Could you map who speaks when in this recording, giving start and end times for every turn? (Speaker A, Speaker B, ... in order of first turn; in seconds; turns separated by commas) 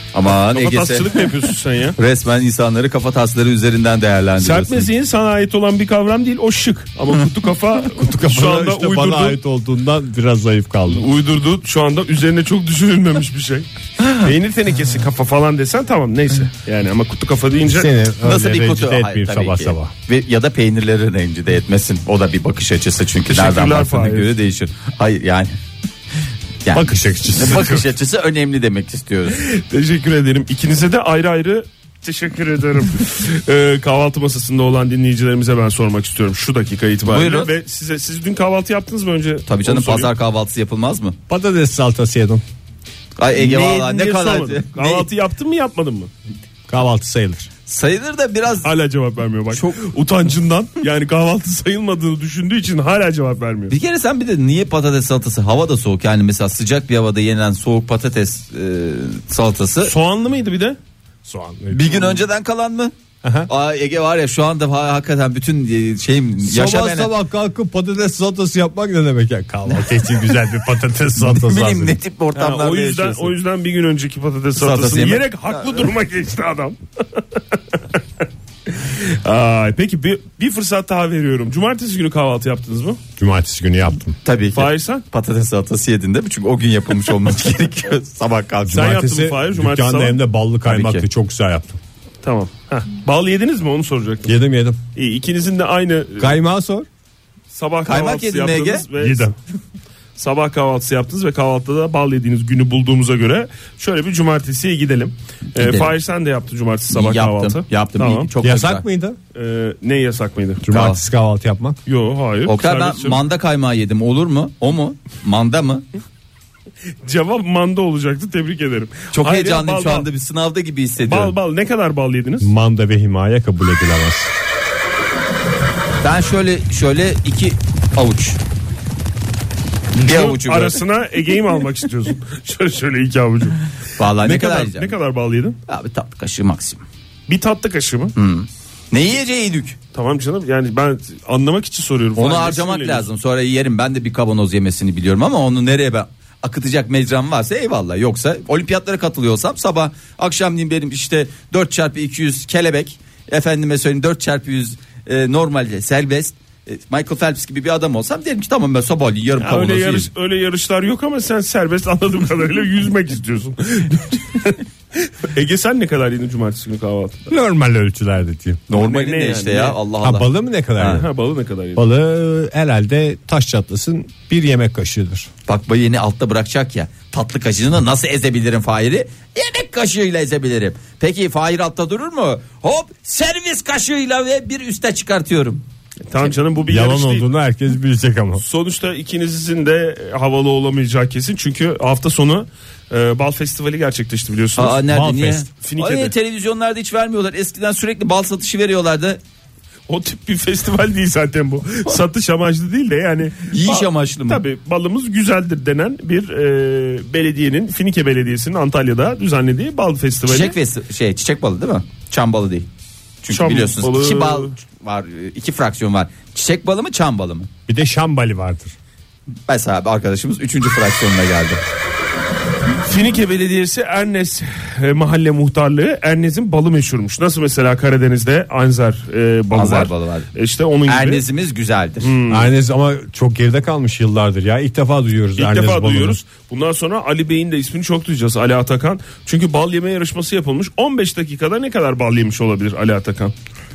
Speaker A: 0.1-1.3, Speaker B: 0.3-2.0, Speaker A: 1.9-4.9, Speaker B: 4.4-9.4, Speaker C: 7.9-11.0, Speaker B: 10.9-17.9, Speaker C: 17.6-19.9, Speaker A: 18.2-25.6, Speaker B: 23.3-24.3, Speaker A: 26.6-29.4, Speaker C: 26.7-27.8, Speaker B: 29.4-40.1, Speaker A: 37.0-37.5, Speaker A: 39.5-41.1, Speaker C: 41.3-42.4, Speaker A: 43.2-45.1, Speaker B: 43.4-46.1, Speaker C: 46.7-47.5, Speaker A: 47.7-48.7, Speaker B: 48.6-53.7, Speaker A: 53.7-59.9, Speaker B: 59.8-60.8, Speaker C: 61.2-62.2, Speaker A: 61.7-62.9, Speaker C: 63.2-63.5, Speaker A: 63.5-67.1, Speaker C: 66.4-72.0, Speaker A: 71.2-73.3, Speaker B: 72.3-77.4, Speaker A: 74.5-75.8, Speaker B: 78.7-83.0, Speaker C: 83.2-84.2, Speaker A: 84.2-89.0, Speaker B: 84.5-85.0, Speaker B: 88.7-90.2, Speaker C: 88.7-91.8, Speaker A: 90.6-91.0, Speaker B: 92.2-94.3, Speaker C: 94.3-94.8, Speaker B: 95.0-96.4, Speaker C: 96.2-96.9, Speaker B: 97.5-99.3, Speaker A: 97.8-98.8, Speaker C: 99.0-99.3, Speaker B: 100.2-108.3, Speaker A: 105.5-105.9, Speaker A: 106.9-108.8, Speaker C: 108.4-109.2, Speaker B: 109.3-110.7, Speaker C: 110.6-111.8, Speaker A: 110.7-111.0, Speaker B: 111.8-113.2, Speaker A: 112.5-115.8, Speaker B: 117.0-120.1, Speaker A: 119.1-121.3, Speaker B: 121.0-122.5, Speaker C: 122.4-124.3, Speaker A: 126.0-128.4, Speaker A: 129.9-130.8, Speaker B: 130.0-135.6, Speaker A: 134.0-134.9, Speaker A: 135.7-136.8, Speaker B: 137.3-138.1, Speaker A: 138.1-139.8, Speaker B: 139.9-143.1, Speaker A: 142.2-160.1, Speaker B: 159.4-167.3, Speaker C: 167.3-168.7, Speaker A: 168.7-171.0, Speaker B: 168.8-169.8, Speaker C: 170.0-171.1, Speaker B: 170.8-171.8, Speaker C: 171.8-175.3, Speaker A: 175.5-185.6, Speaker B: 186.1-187.3, Speaker C: 186.7-188.4, Speaker B: 188.4-194.8, Speaker A: 194.6-199.2, Speaker C: 194.9-195.5, Speaker B: 195.6-196.1, Speaker B: 199.9-210.5, Speaker A: 203.5-204.4, Speaker A: 210.2-212.7, Speaker A: 213.2-217.5, Speaker B: 213.3-214.5, Speaker C: 217.7-218.7, Speaker A: 219.5-221.6, Speaker B: 222.8-231.2, Speaker A: 229.5-230.3, Speaker A: 230.9-232.1, Speaker B: 232.0-232.5, Speaker C: 232.3-236.2, Speaker B: 235.4-243.3